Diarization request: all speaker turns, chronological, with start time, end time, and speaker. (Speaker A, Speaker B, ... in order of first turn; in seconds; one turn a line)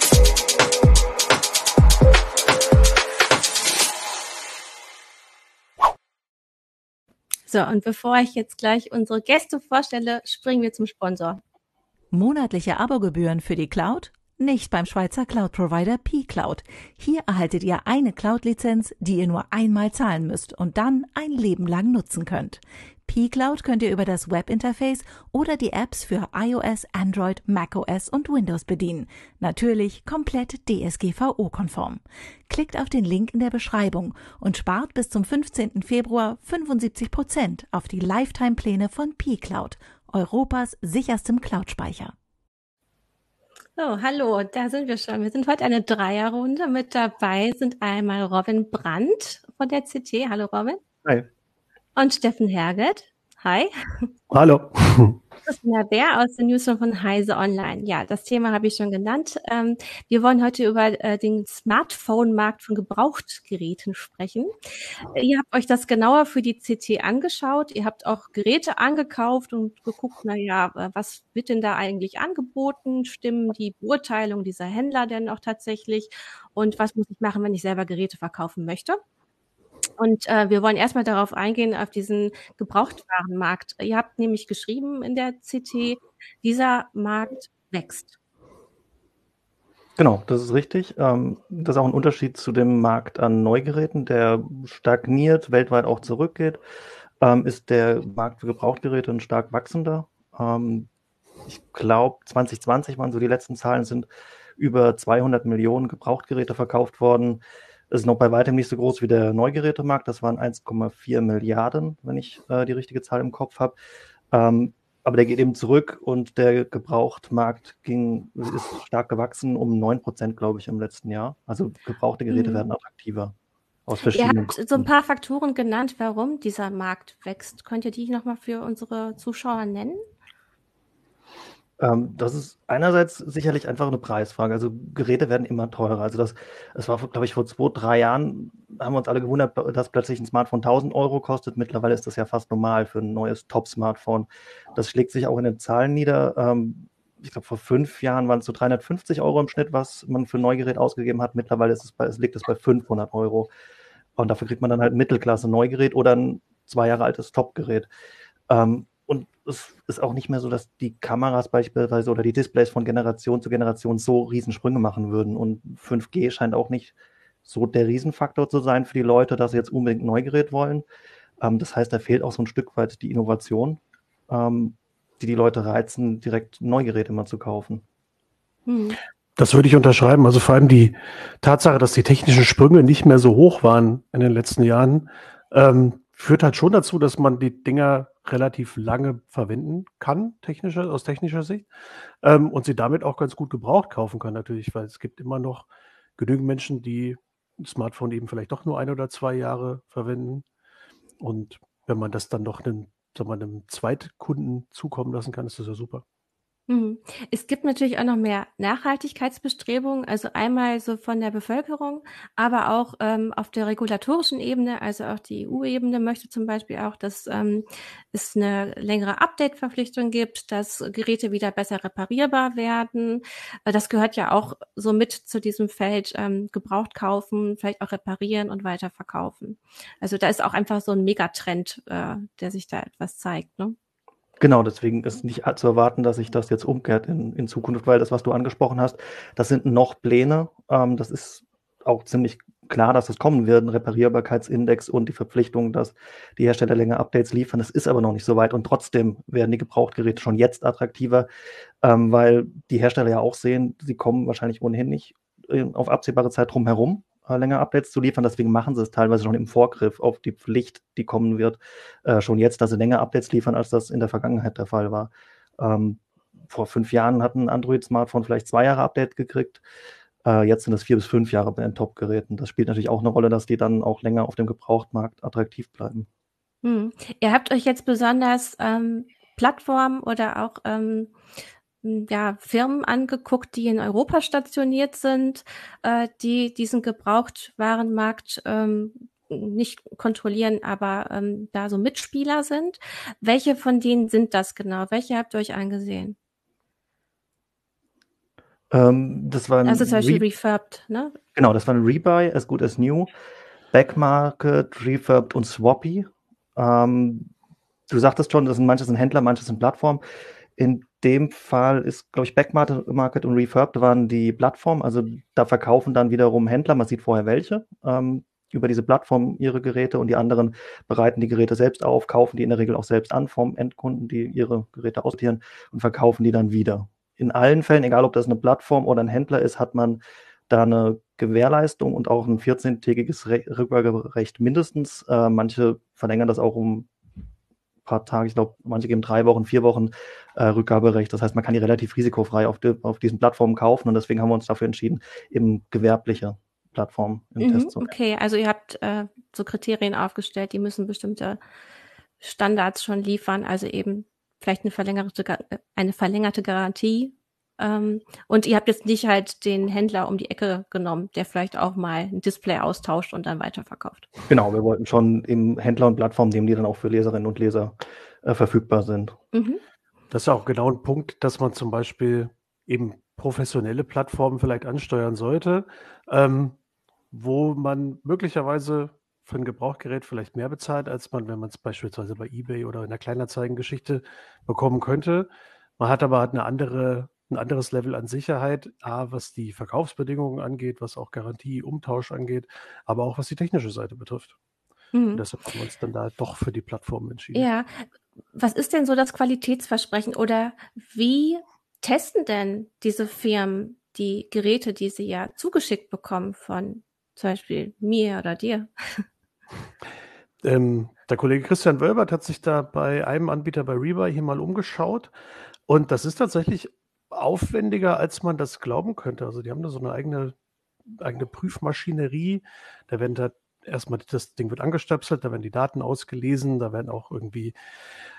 Speaker A: 7.5-11.4
Speaker B: 12.1-42.1
Speaker A: 43.8-50.8
Speaker A: 52.0-54.1
Speaker C: 54.3-55.2
Speaker A: 55.5-64.5
Speaker A: 65.1-79.0
Speaker A: 80.0-88.2
Speaker D: 90.0-96.6
Speaker D: 97.2-100.9
Speaker D: 101.5-113.8
Speaker D: 114.3-123.3
Speaker A: 122.3-122.6
Speaker D: 123.9-124.8
Speaker A: 124.1-130.0
Speaker D: 131.8-153.5
Speaker D: 154.2-157.9
Speaker D: 158.5-166.9
Speaker D: 167.4-170.8
Speaker D: 171.4-177.8
Speaker A: 178.7-179.0
Speaker C: 179.4-191.7
Speaker C: 192.2-200.4
Speaker C: 201.2-206.0
Speaker A: 206.7-233.8
Speaker D: 234.4-251.3
Speaker D: 251.8-269.6
Speaker D: 270.2-276.1
Speaker A: 276.6-281.1
Speaker A: 281.8-296.1
Speaker D: 298.7-300.2
Speaker A: 299.6-301.1
Speaker D: 301.3-303.1
Speaker D: 303.7-307.3
Speaker D: 307.9-310.0
Speaker D: 310.6-336.9
Speaker D: 337.9-347.9
Speaker A: 347.4-351.4
Speaker A: 352.2-364.1
Speaker D: 364.3-369.1
Speaker A: 369.3-369.6
Speaker C: 370.1-376.6
Speaker C: 377.1-385.3
Speaker C: 385.8-394.3
Speaker A: 394.9-395.2
Speaker C: 395.1-397.5
Speaker A: 397.3-409.0
Speaker C: 410.4-415.1
Speaker C: 415.7-420.3
Speaker C: 420.9-427.5